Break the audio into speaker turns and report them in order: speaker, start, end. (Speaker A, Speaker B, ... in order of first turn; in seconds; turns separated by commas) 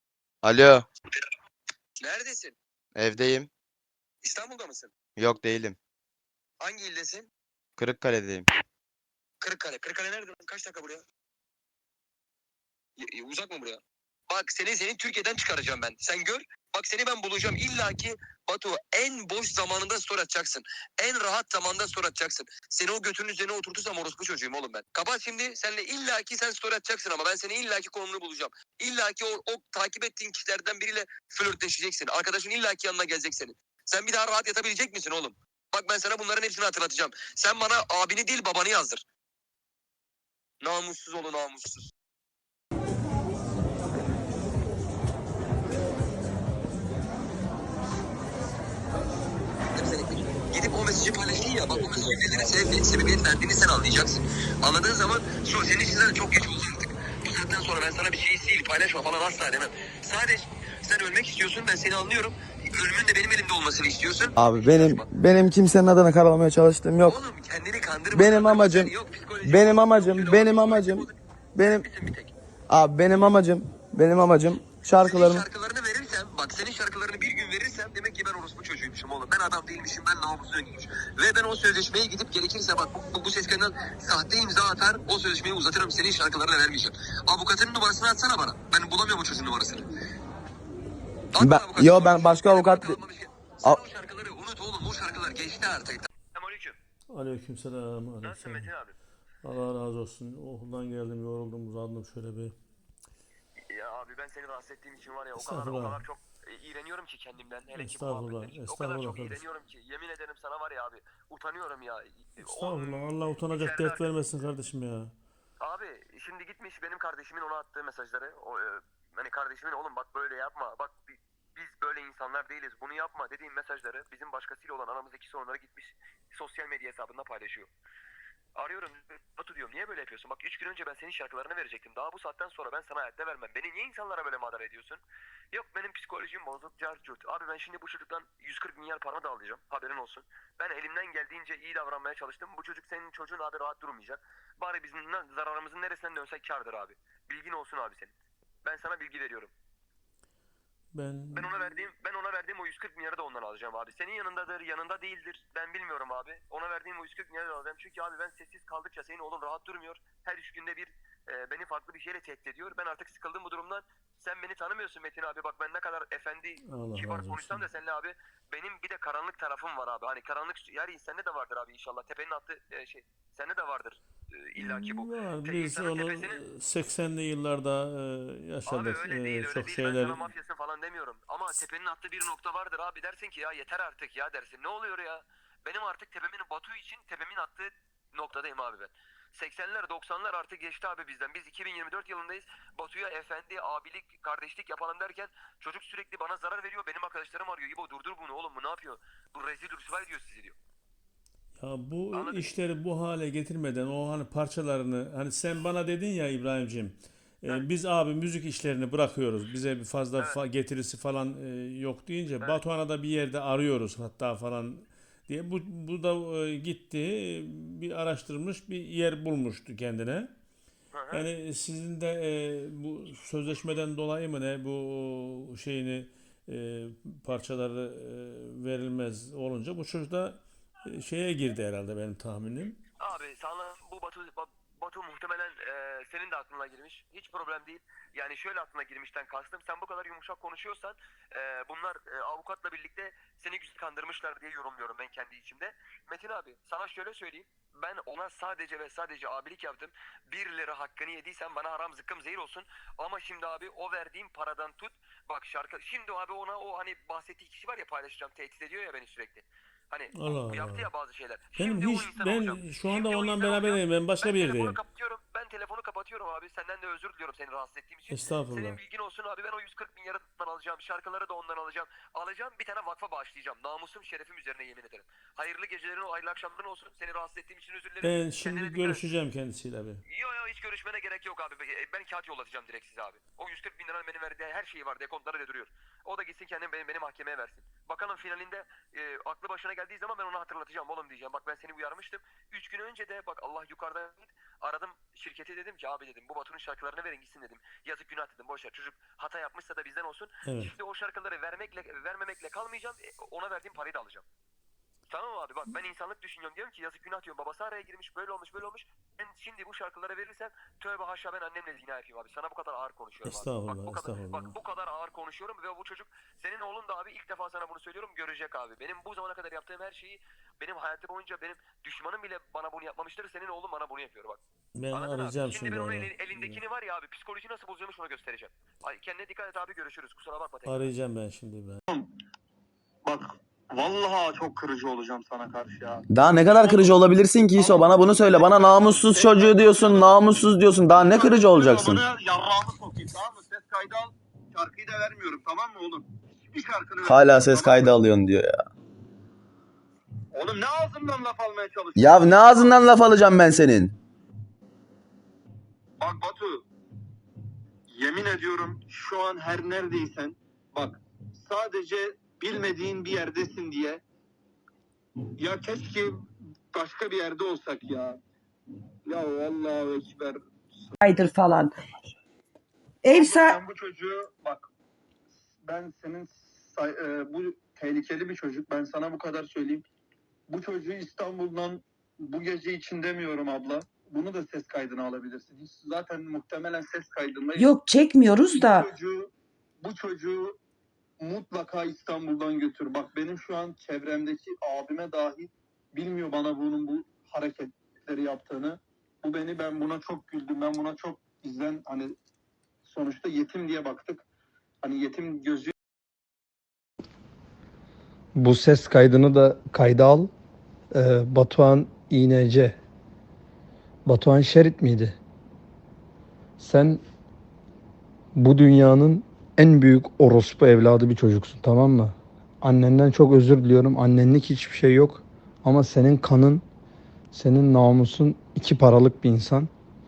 Speaker A: 0.4-0.8, Speaker B: 2.0-2.6, Speaker A: 2.9-3.5, Speaker B: 4.2-4.9, Speaker A: 5.2-5.8, Speaker B: 6.6-7.3, Speaker A: 7.8-8.5, Speaker B: 9.4-11.0, Speaker B: 13.0-39.0, Speaker B: 40.6-41.9, Speaker B: 49.7-65.1, Speaker C: 64.4-67.2, Speaker B: 67.0-72.3, Speaker C: 68.1-68.9, Speaker C: 69.4-71.8, Speaker C: 72.7-75.4, Speaker B: 75.0-89.8, Speaker B: 91.3-96.8, Speaker C: 91.4-93.0, Speaker D: 97.1-98.7, Speaker B: 98.2-99.0, Speaker D: 99.4-102.6, Speaker B: 103.7-114.1, Speaker D: 105.3-106.0, Speaker D: 107.7-109.4, Speaker D: 112.4-115.1, Speaker B: 115.6-127.7, Speaker B: 128.6-149.5, Speaker D: 150.9-151.5, Speaker B: 151.3-176.4, Speaker D: 166.7-167.7, Speaker D: 174.6-180.2, Speaker B: 178.7-200.6, Speaker D: 201.6-220.3, Speaker B: 202.1-202.4, Speaker B: 220.9-221.2, Speaker D: 221.1-232.8, Speaker B: 233.0-279.1, Speaker D: 260.1-260.9, Speaker D: 261.6-264.8, Speaker D: 268.1-268.8, Speaker D: 278.0-280.0, Speaker B: 280.0-304.2, Speaker D: 300.4-300.7, Speaker B: 305.1-324.4, Speaker D: 313.2-314.5, Speaker D: 324.7-326.6, Speaker B: 324.9-330.8, Speaker D: 330.6-331.8, Speaker E: 333.0-337.0, Speaker C: 336.1-342.0, Speaker E: 337.5-340.2, Speaker E: 340.9-348.0, Speaker C: 347.0-348.5, Speaker E: 350.3-352.9, Speaker C: 351.9-353.9, Speaker E: 356.0-356.6, Speaker E: 357.9-364.0, Speaker E: 365.4-366.1, Speaker E: 366.7-368.2, Speaker E: 369.1-370.9, Speaker F: 371.0-371.7, Speaker E: 373.1-374.7, Speaker E: 375.6-379.8, Speaker E: 380.5-387.8, Speaker F: 387.6-388.8, Speaker E: 388.5-390.6, Speaker E: 391.2-402.1, Speaker E: 402.8-404.2, Speaker E: 404.8-405.7, Speaker G: 408.4-410.3, Speaker G: 410.9-412.8, Speaker G: 414.1-415.2, Speaker G: 416.6-417.0, Speaker G: 418.4-426.6, Speaker G: 427.3-429.7